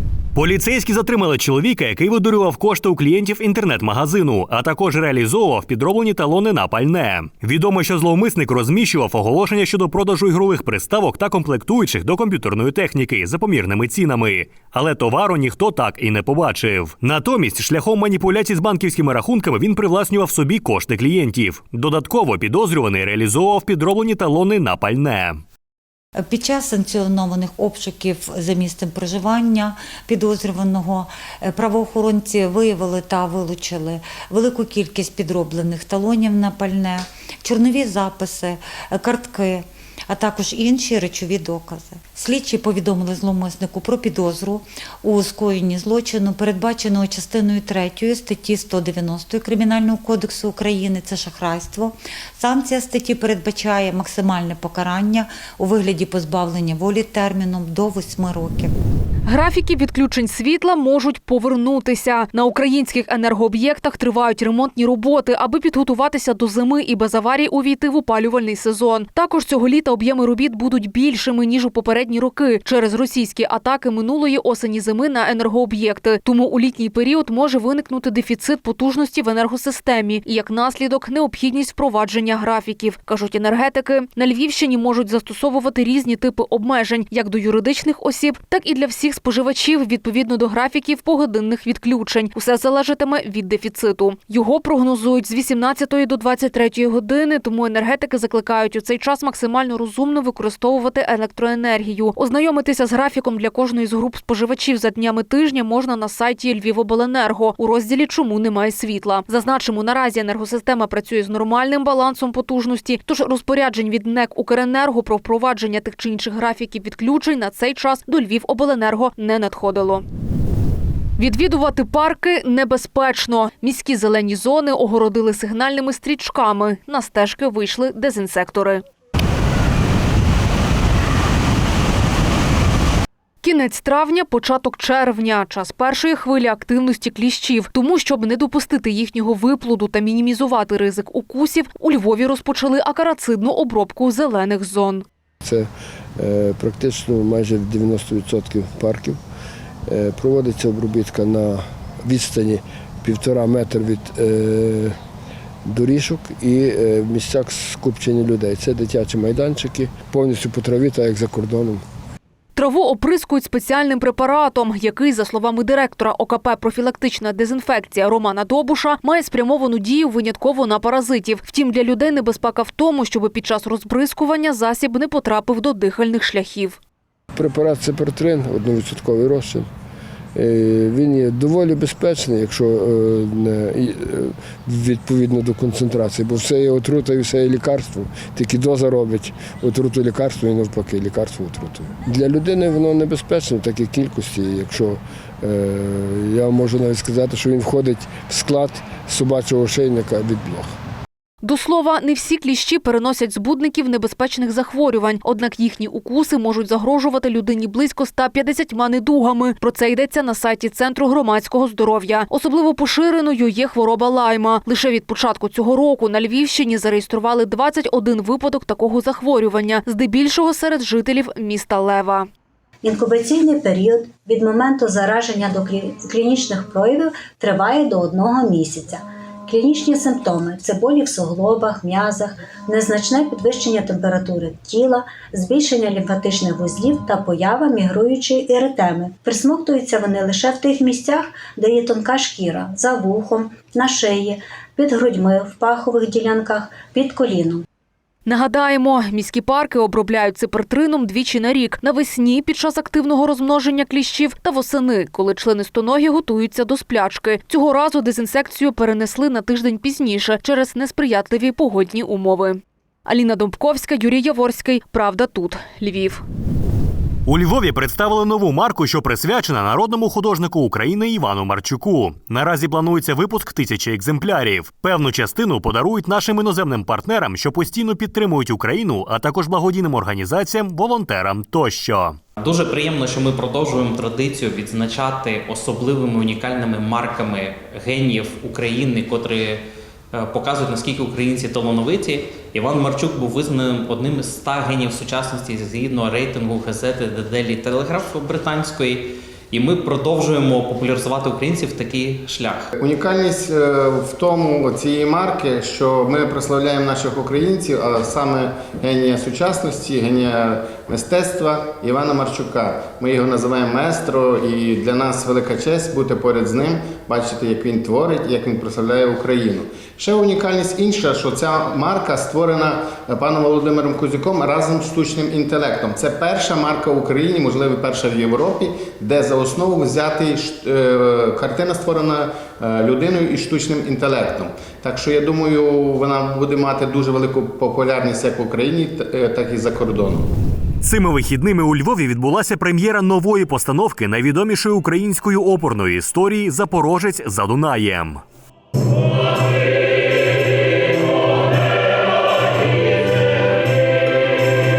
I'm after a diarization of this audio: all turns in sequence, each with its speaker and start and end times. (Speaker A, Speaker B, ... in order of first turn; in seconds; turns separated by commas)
Speaker A: 0.3-25.4, Speaker B: 26.2-58.7, Speaker C: 59.3-120.0, Speaker C: 121.2-128.8, Speaker C: 133.4-145.1, Speaker D: 145.4-149.2, Speaker D: 149.9-155.0, Speaker D: 155.7-161.8, Speaker C: 162.6-176.8, Speaker D: 177.3-179.7, Speaker D: 180.3-200.8, Speaker C: 201.4-222.3, Speaker E: 222.8-247.7, Speaker C: 248.3-266.2, Speaker A: 267.3-282.2, Speaker F: 282.4-302.6, Speaker G: 302.8-340.2, Speaker A: 340.8-348.2